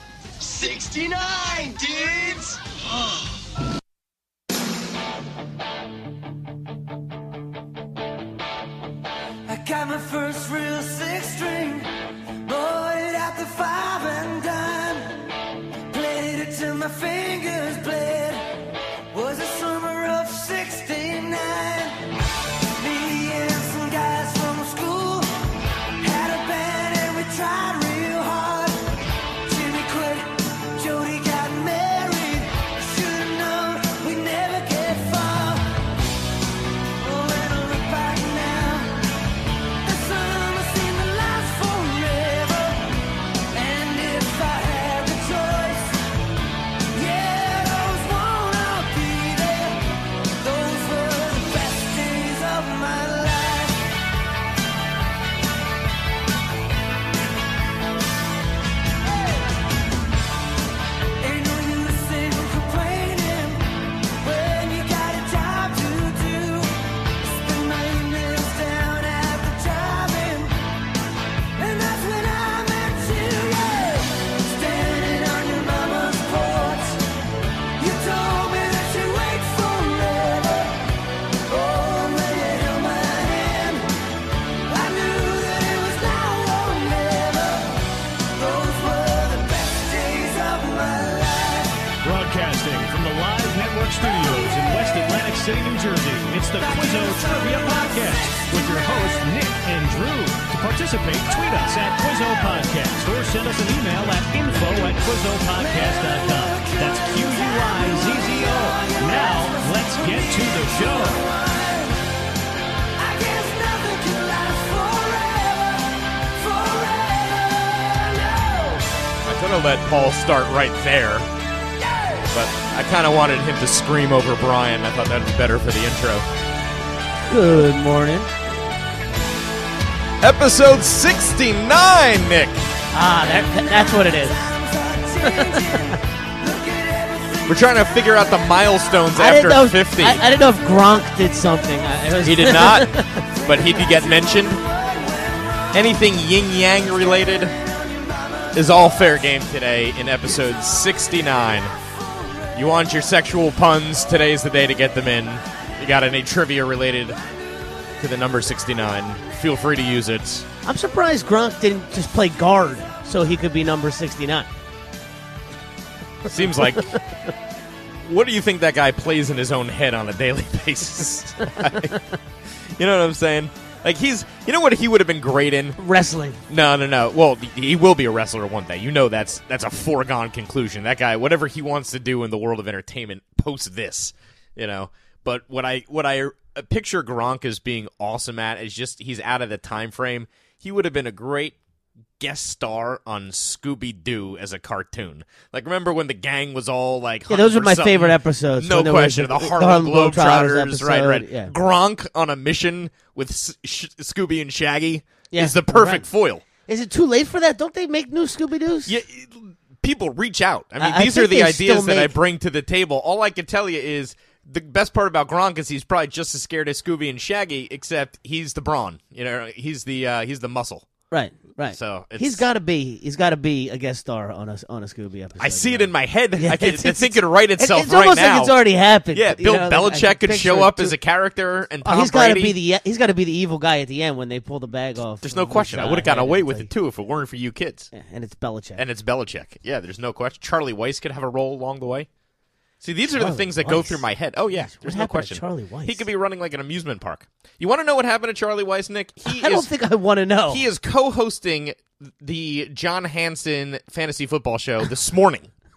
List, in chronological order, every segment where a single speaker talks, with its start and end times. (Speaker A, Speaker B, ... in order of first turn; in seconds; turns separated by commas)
Speaker A: 0.4-3.4, Speaker B: 9.5-11.9, Speaker B: 12.4-15.3, Speaker B: 15.9-18.6, Speaker B: 19.1-22.1, Speaker B: 22.8-25.4, Speaker B: 26.0-28.8, Speaker B: 29.5-35.8, Speaker B: 37.0-39.0, Speaker B: 39.8-42.9, Speaker B: 43.5-46.0, Speaker B: 46.9-49.9, Speaker B: 50.4-53.9, Speaker B: 61.2-63.7, Speaker B: 64.2-70.6, Speaker B: 71.6-77.1, Speaker B: 77.8-80.8, Speaker B: 81.5-83.9, Speaker B: 84.7-91.9, Speaker C: 92.0-111.3, Speaker B: 94.2-94.5, Speaker B: 96.6-98.5, Speaker B: 105.5-112.0, Speaker B: 113.0-118.9, Speaker D: 119.3-121.3, Speaker D: 122.3-126.3, Speaker E: 127.2-128.3, Speaker D: 130.2-132.7, Speaker E: 132.9-134.5, Speaker B: 133.3-138.4, Speaker E: 135.2-136.0, Speaker D: 137.5-140.2, Speaker E: 139.2-143.3, Speaker D: 142.2-144.6, Speaker B: 143.3-146.0, Speaker D: 145.7-147.6, Speaker B: 147.2-148.7, Speaker D: 148.5-151.8, Speaker B: 152.1-152.5, Speaker D: 152.5-157.2, Speaker D: 158.0-160.5, Speaker E: 160.6-164.5, Speaker D: 166.2-167.0, Speaker E: 166.5-166.9, Speaker D: 168.0-172.0, Speaker D: 172.8-175.8, Speaker E: 175.8-176.4, Speaker D: 176.5-191.6, Speaker D: 192.2-206.4, Speaker E: 197.3-201.5, Speaker E: 205.3-206.1, Speaker E: 206.7-209.0, Speaker D: 208.9-220.9, Speaker E: 210.8-212.1, Speaker E: 221.1-231.0, Speaker D: 221.7-222.4, Speaker D: 225.4-232.6, Speaker E: 231.8-236.7, Speaker D: 235.2-237.9, Speaker E: 237.9-238.8, Speaker D: 238.8-242.1, Speaker D: 242.8-249.7, Speaker E: 243.2-244.0, Speaker E: 244.6-246.1, Speaker E: 249.2-250.7, Speaker D: 250.5-255.5